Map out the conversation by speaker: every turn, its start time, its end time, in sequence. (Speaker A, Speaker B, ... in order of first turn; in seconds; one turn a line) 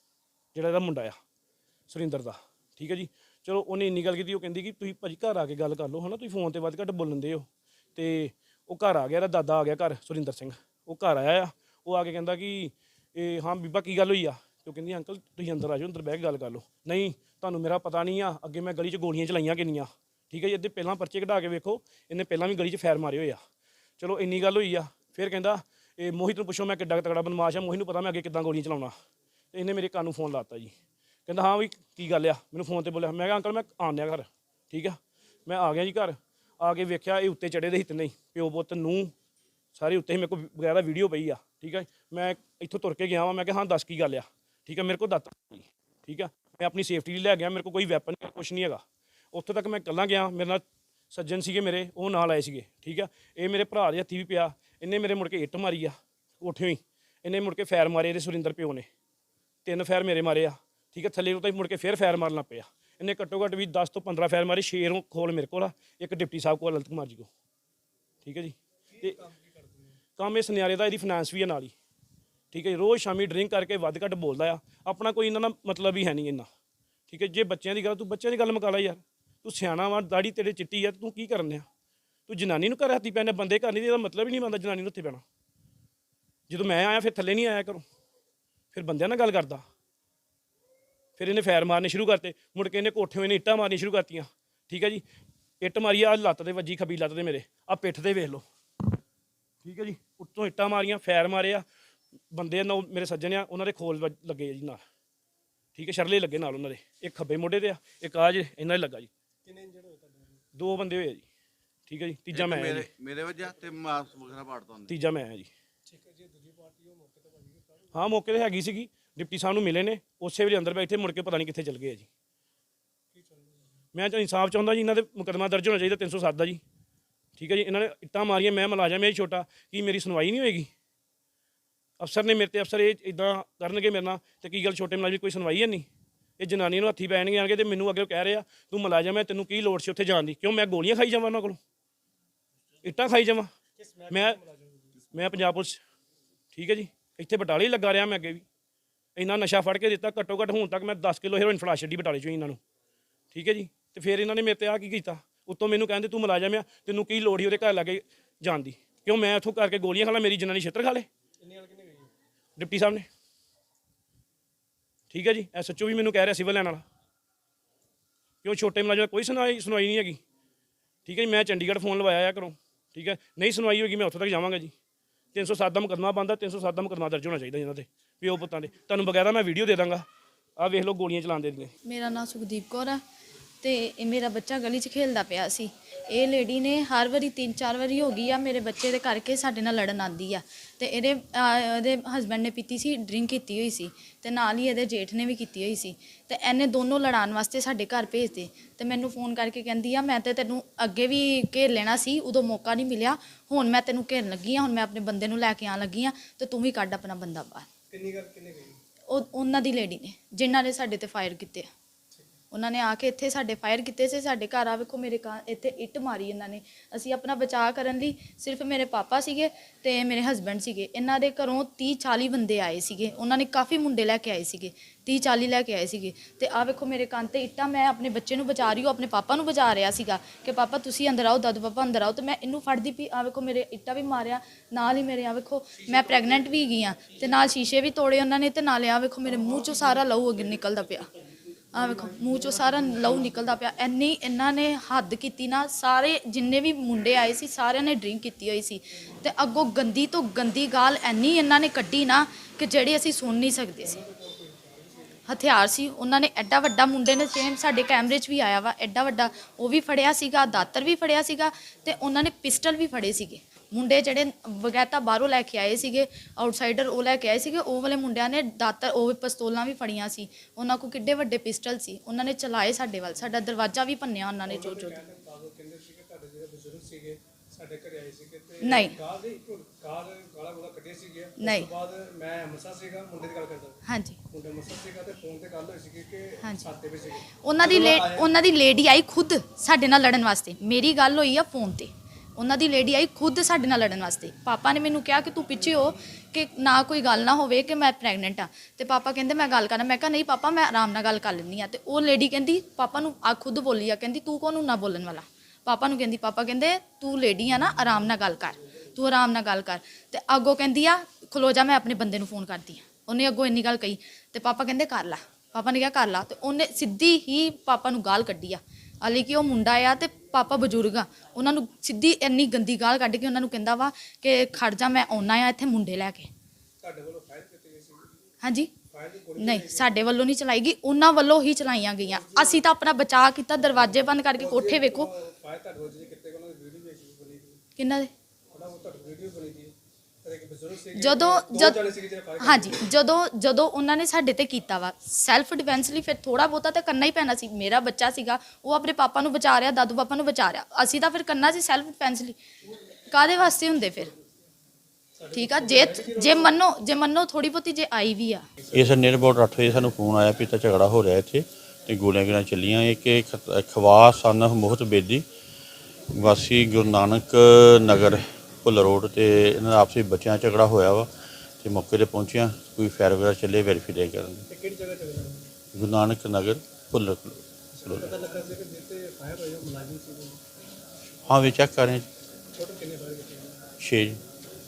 Speaker A: 0.5-1.2
Speaker A: 1.9-23.4
Speaker A: 24.0-28.9
Speaker A: 29.5-30.7
Speaker A: 31.3-39.1
Speaker A: 39.8-48.8
Speaker A: 49.3-58.9
Speaker A: 59.6-67.3
Speaker A: 68.2-69.2
Speaker B: 68.9-70.0
Speaker A: 70.2-71.7
Speaker A: 72.5-76.5
Speaker A: 77.1-81.7
Speaker A: 82.3-85.2
Speaker A: 86.5-87.8
Speaker A: 88.7-89.7
Speaker A: 91.2-95.0
Speaker A: 95.6-98.5
Speaker A: 99.6-101.7
Speaker A: 102.3-104.8
Speaker A: 105.8-109.1
Speaker B: 109.5-110.4
Speaker A: 110.5-111.3
Speaker A: 111.9-112.9
Speaker C: 112.3-114.9
Speaker A: 114.9-115.5
Speaker B: 115.9-117.9
Speaker A: 117.9-122.1
Speaker B: 123.1-123.7
Speaker A: 123.9-126.6
Speaker A: 127.4-130.7
Speaker A: 132.0-135.9
Speaker A: 136.4-141.6
Speaker A: 142.8-143.5
Speaker B: 143.8-145.0
Speaker A: 144.1-144.4
Speaker A: 145.1-145.8
Speaker A: 146.5-148.4
Speaker A: 149.2-152.6
Speaker A: 153.3-161.1
Speaker B: 161.4-162.1
Speaker A: 162.6-163.1
Speaker A: 165.1-166.8
Speaker A: 168.4-170.2
Speaker A: 171.1-174.7
Speaker A: 175.3-180.1
Speaker A: 180.6-181.7
Speaker D: 181.8-183.0
Speaker D: 183.6-207.7
Speaker B: 207.9-208.8
Speaker D: 209.1-211.7
Speaker D: 212.5-241.1
Speaker D: 241.7-254.0
Speaker B: 241.8-243.5
Speaker B: 253.8-255.2
Speaker D: 255.3-275.0
Speaker B: 274.5-283.8
Speaker D: 278.6-279.0
Speaker D: 281.4-281.7
Speaker D: 283.9-284.2
Speaker B: 284.3-288.3
Speaker D: 286.4-286.7
Speaker D: 287.4-326.3
Speaker B: 326.8-328.1
Speaker D: 328.4-328.7
Speaker B: 328.9-330.0
Speaker D: 329.4-335.1
Speaker B: 332.1-332.6
Speaker B: 334.4-337.6
Speaker D: 337.8-338.1
Speaker B: 338.5-342.9
Speaker D: 341.0-341.8
Speaker D: 342.4-352.4
Speaker D: 353.0-354.1
Speaker B: 355.2-356.6
Speaker D: 355.3-358.5
Speaker E: 358.7-365.2
Speaker E: 366.1-371.1
Speaker E: 371.6-374.4
Speaker B: 374.5-375.5
Speaker E: 375.7-378.1
Speaker B: 377.7-380.4
Speaker E: 381.3-382.1
Speaker B: 382.6-383.6
Speaker E: 383.8-384.2